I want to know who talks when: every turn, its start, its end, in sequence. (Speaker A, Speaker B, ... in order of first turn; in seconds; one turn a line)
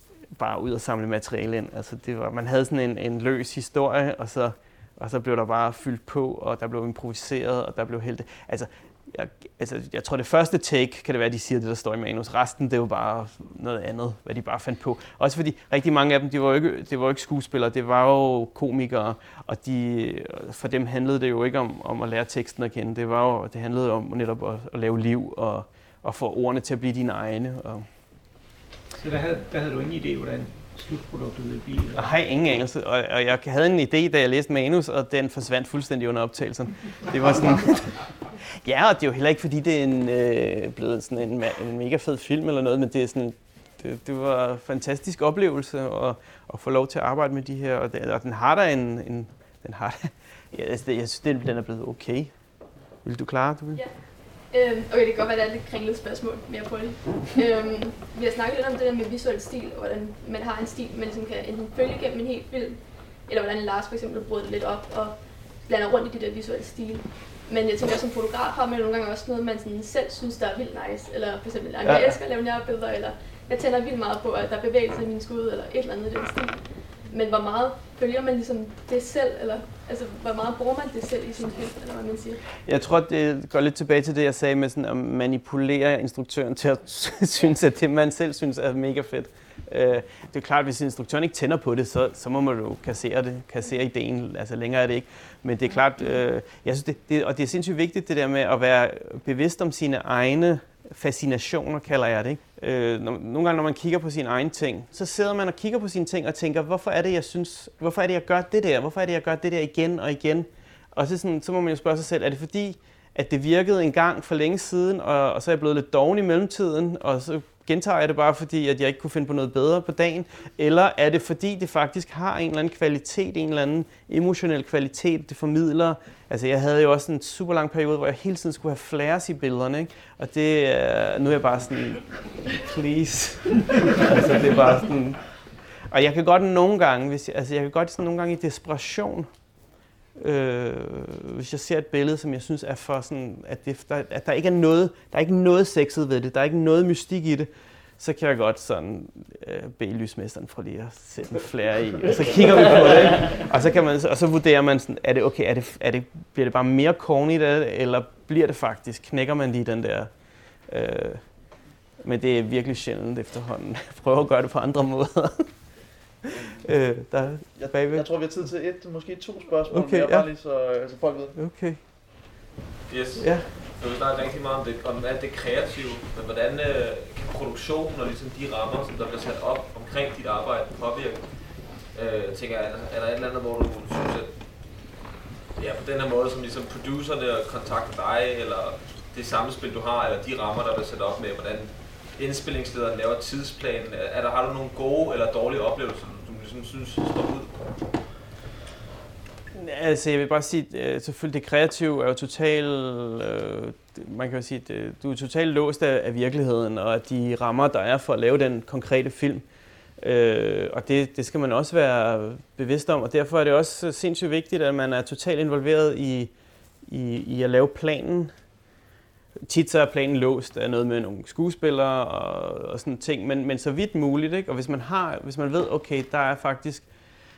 Speaker A: 0.3-27.9
Speaker B: 28.9-32.1
Speaker A: 31.9-52.4
Speaker A: 53.0-53.8
Speaker C: 53.7-82.5
Speaker A: 71.8-72.2
Speaker A: 82.6-135.3
Speaker A: 135.9-139.3
Speaker A: 140.2-160.1
Speaker A: 160.6-161.5
Speaker A: 162.0-165.5
Speaker A: 166.3-168.1
Speaker D: 167.6-171.4
Speaker A: 169.7-170.3
Speaker A: 171.3-171.8
Speaker E: 172.9-184.9
Speaker A: 173.2-173.5
Speaker E: 185.5-197.6
Speaker A: 199.5-209.4
Speaker A: 210.0-216.3
Speaker A: 216.8-218.3
Speaker A: 219.5-226.9